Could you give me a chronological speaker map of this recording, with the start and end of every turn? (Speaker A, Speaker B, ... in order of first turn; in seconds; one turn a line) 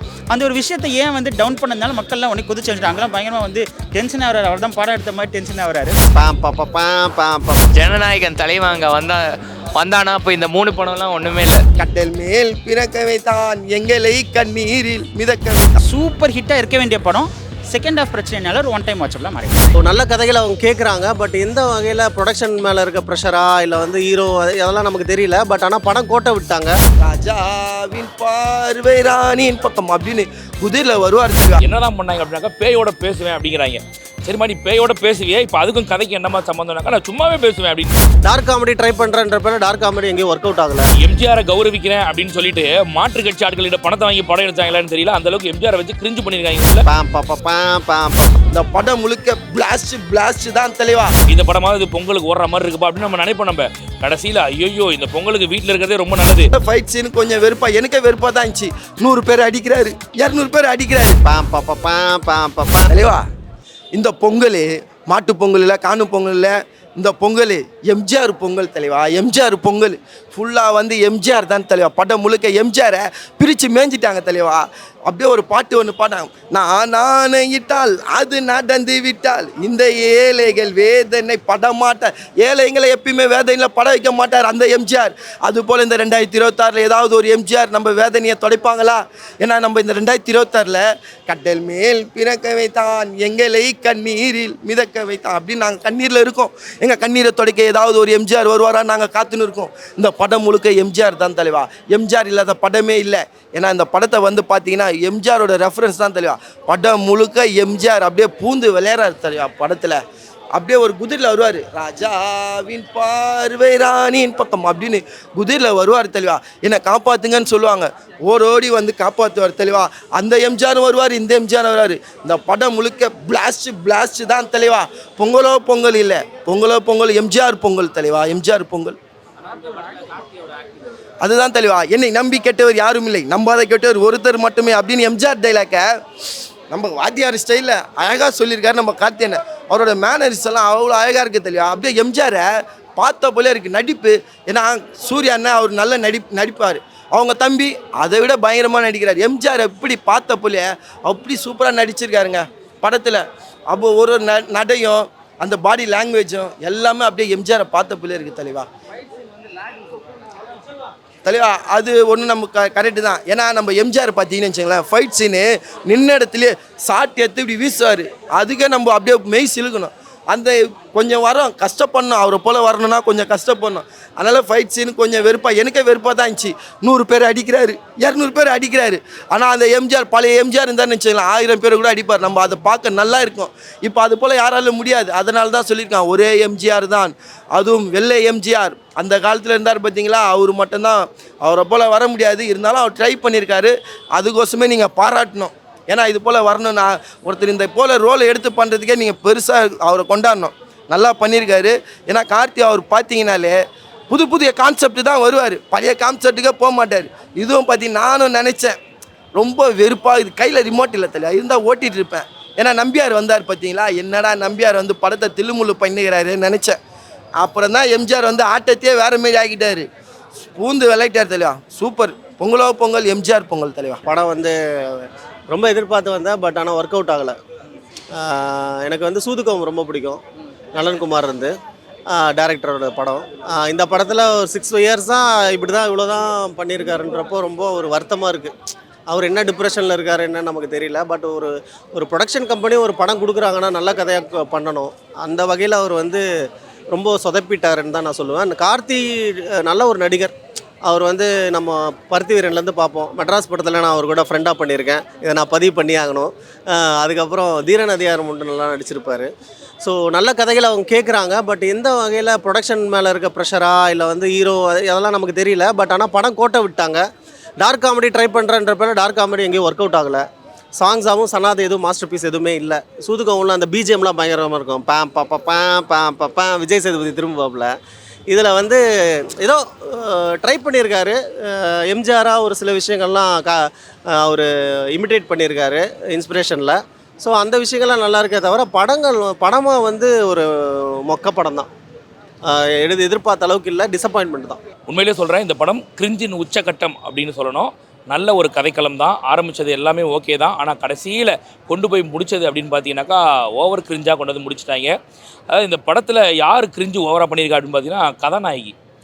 Speaker A: 0.3-5.9
Speaker B: 6.1-7.7
Speaker C: 7.8-9.2
Speaker C: 9.8-11.6
Speaker D: 11.8-15.8
Speaker A: 15.8-19.7
Speaker B: 19.8-26.7
Speaker D: 27.0-31.6
Speaker E: 31.6-38.0
Speaker B: 38.2-40.9
Speaker E: 41.0-46.8
Speaker B: 46.9-48.3
Speaker D: 48.5-51.1
Speaker E: 51.3-56.5
Speaker D: 56.5-61.2
Speaker B: 61.2-62.9
Speaker D: 62.9-63.2
Speaker D: 63.9-110.0
Speaker D: 110.5-129.0
Speaker D: 131.2-135.9
Speaker D: 136.7-142.4
Speaker D: 143.0-158.7
Speaker D: 161.2-203.6
Speaker D: 204.1-208.7
Speaker D: 209.3-216.8
Speaker D: 217.4-219.9
Speaker D: 220.6-224.0
Speaker B: 224.1-227.3
Speaker B: 228.2-230.2
Speaker B: 230.8-231.5
Speaker B: 232.1-238.5
Speaker B: 239.1-246.2
Speaker B: 246.9-250.3
Speaker B: 250.9-259.3
Speaker B: 259.8-267.0
Speaker B: 267.6-270.2
Speaker B: 270.8-277.7
Speaker B: 278.3-278.8
Speaker B: 279.4-283.6
Speaker B: 284.2-290.5
Speaker B: 291.1-291.7
Speaker B: 292.5-294.6
Speaker E: 294.9-304.9
Speaker E: 305.5-308.7